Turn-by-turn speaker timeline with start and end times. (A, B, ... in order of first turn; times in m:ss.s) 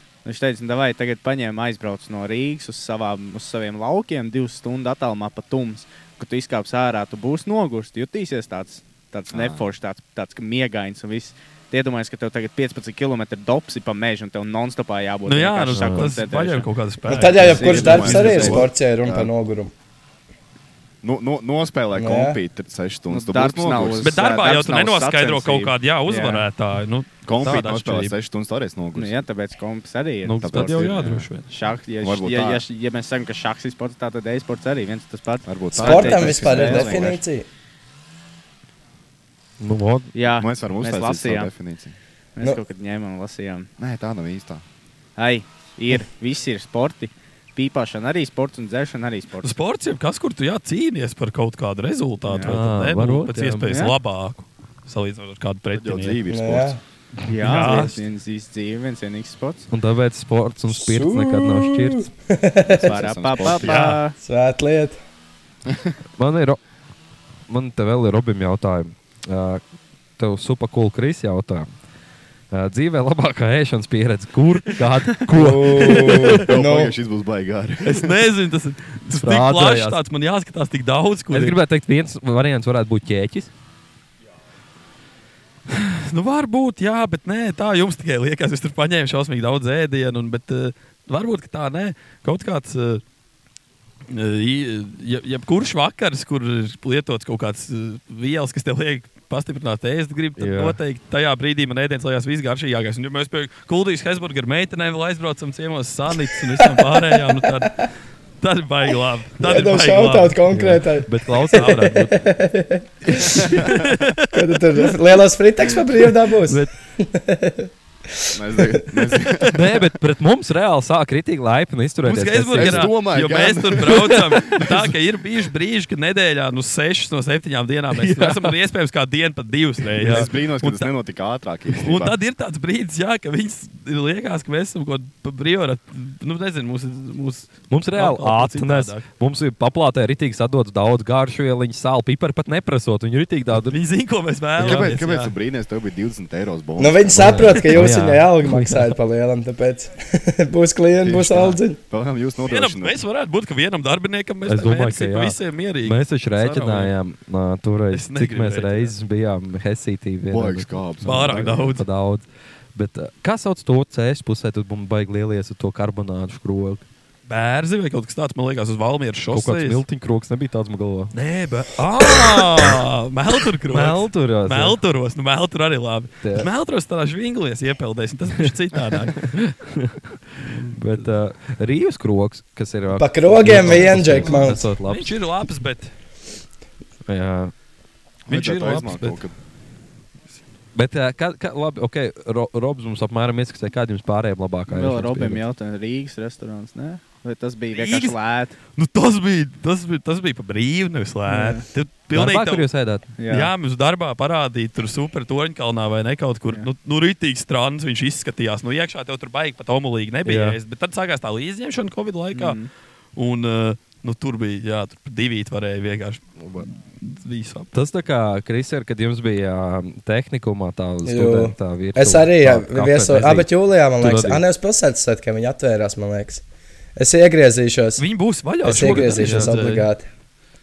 0:00.2-0:16.7 A
0:09.3-0:09.7 B
0:15.3-0:18.6 C
0:15.7-0:16.1 D
0:17.1-0:19.7 E
0:17.2-0:18.2 A
0:17.4-0:18.6 D
0:17.4-0:19.3 B
0:21.0-0:24.2 B
0:21.9-0:22.4 E
0:23.1-0:26.5 A
0:24.0-0:28.2 C
0:27.2-0:29.2 B
0:29.0-0:30.8 A
0:30.2-0:31.5 C
0:30.4-0:31.3 B
0:31.5-0:37.2 A
0:32.0-0:32.6 B
0:35.5-0:37.2 B
0:35.7-0:37.5 E
0:39.6-0:40.1 D
0:40.1-0:41.5 A
0:40.4-0:42.0 B
0:42.4-0:43.7 A
0:43.8-0:44.6 B
0:45.2-0:49.6 A
0:49.4-0:56.2 C
0:52.3-0:52.6 A
0:52.4-0:53.8 D
0:53.7-0:54.0 A
0:55.7-0:56.8 B
0:56.3-0:56.8 E
0:57.3-0:59.7 A
0:57.4-0:58.0 C
0:59.7-1:02.0 D
1:00.7-1:03.0 E
1:02.8-1:03.9 B
1:02.8-1:04.2 A
1:03.6-1:04.0 C
1:04.2-1:05.0 E
1:05.7-1:06.0 B
1:06.2-1:06.6 D
1:07.5-1:09.6 D
1:10.2-1:11.7 D
1:12.5-1:16.3 D
1:15.3-1:16.9 E
1:16.1-1:16.4 C
1:16.4-1:18.2 B
1:17.8-1:21.6 C
1:19.1-1:20.0 D
1:21.3-1:23.5 D
1:25.7-1:33.0 C
1:34.1-1:47.9 C
1:40.4-1:40.8 D
1:46.5-1:47.7 E
1:48.4-1:50.4 C
1:49.4-1:53.7 E
1:50.5-1:52.2 D
1:51.6-1:52.0 C
1:53.2-1:53.4 D
1:53.4-1:53.8 B
1:53.5-1:54.5 C
1:54.3-1:59.2 E
1:56.5-1:56.7 D
1:58.3-1:59.6 B
1:59.5-2:02.9 D
2:02.0-2:10.9 C
2:02.6-2:04.9 B
2:07.9-2:08.5 D
2:10.0-2:12.2 B
2:10.0-2:10.3 D
2:11.7-2:19.0 C
2:17.7-2:23.8 D
2:23.6-2:25.3 C
2:24.6-2:24.9 D
2:24.6-2:27.8 B
2:26.8-2:31.8 E
2:27.2-2:28.9 D
2:31.0-2:33.0 B
2:32.4-2:36.9 C
2:34.5-2:46.8 D
2:37.9-2:38.9 C
2:40.3-2:41.8 B
2:41.0-2:41.8 C
2:47.3-2:49.8 C
2:49.3-2:51.1 D
2:51.1-2:59.4 C
2:52.1-2:52.7 D
2:53.7-2:54.8 D
2:56.2-2:56.5 D
2:59.2-3:05.2 D
3:00.4-3:01.0 C
3:03.0-3:04.7 E
3:04.8-3:05.9 C
3:07.1-3:07.5 D
3:08.3-3:09.3 B
3:08.3-3:09.2 C
3:10.8-3:15.4 D
3:14.7-3:18.6 A
3:17.7-3:18.2 C
3:18.7-3:22.7 C
3:21.3-3:21.7 A
3:22.1-3:23.1 D
3:23.2-3:23.5 A
3:23.3-3:37.7 C
3:30.2-3:30.6 D
3:32.3-3:32.7 A
3:37.7-3:44.4 D
3:41.0-3:46.4 E
3:47.0-3:48.1 E
3:48.0-3:49.9 C
3:48.6-3:50.1 E
3:48.6-3:49.7 D